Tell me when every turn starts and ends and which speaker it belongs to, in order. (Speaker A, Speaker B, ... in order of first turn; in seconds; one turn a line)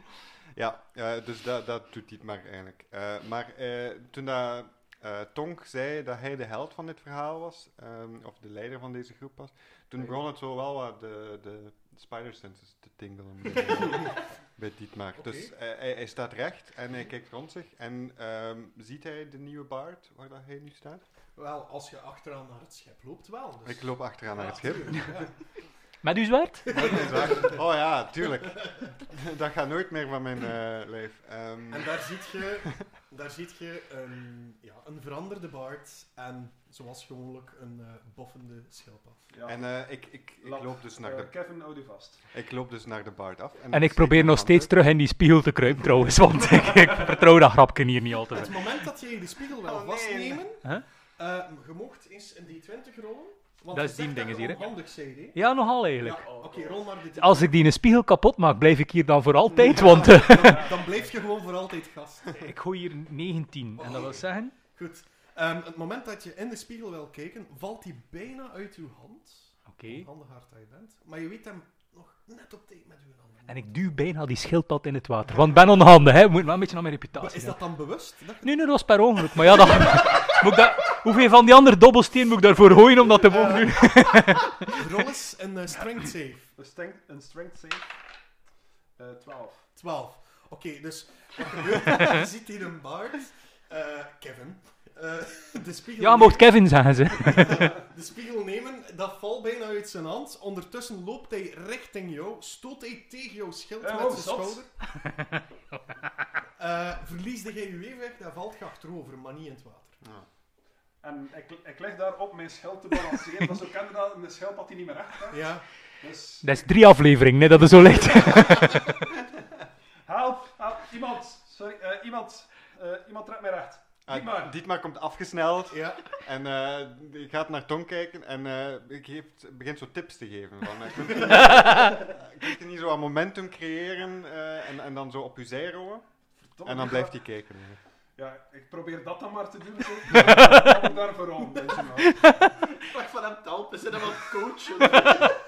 Speaker A: 0.5-21.0
Speaker B: 15.1-15.5
Speaker B: 21.3-25.4
Speaker A: 23.6-25.1
Speaker C: 26.0-27.0
Speaker B: 26.7-27.6
Speaker A: 26.7-31.9
Speaker B: 31.7-39.2
Speaker D: 39.3-39.7
Speaker A: 39.4-41.3
Speaker D: 40.4-42.2
Speaker A: 42.3-44.7
Speaker C: 43.7-48.6
Speaker B: 48.3-55.4
Speaker A: 49.6-50.4
Speaker C: 53.7-54.7
Speaker C: 55.3-56.3
Speaker B: 56.0-57.6
Speaker E: 56.1-56.8
Speaker C: 57.1-60.8
Speaker B: 59.5-62.5
Speaker D: 60.4-61.1
Speaker C: 62.4-64.5
Speaker B: 63.8-73.7
Speaker C: 69.7-70.1
Speaker C: 73.5-77.6
Speaker B: 77.1-78.7
Speaker C: 78.4-84.8
Speaker B: 83.2-83.9
Speaker B: 84.7-86.5
Speaker D: 86.5-87.8
Speaker D: 89.0-89.7
Speaker B: 89.7-96.6
Speaker C: 96.0-97.7
Speaker B: 97.2-104.7
Speaker D: 103.8-104.6
Speaker B: 106.6-110.0
Speaker D: 111.0-116.6
Speaker B: 115.3-115.6
Speaker C: 116.4-118.9
Speaker D: 120.0-124.5
Speaker A: 124.1-136.1
Speaker B: 125.7-126.0
Speaker D: 136.4-137.2
Speaker A: 136.6-137.8
Speaker D: 138.2-142.2
Speaker C: 140.2-140.7
Speaker C: 142.1-142.5
Speaker E: 142.7-145.3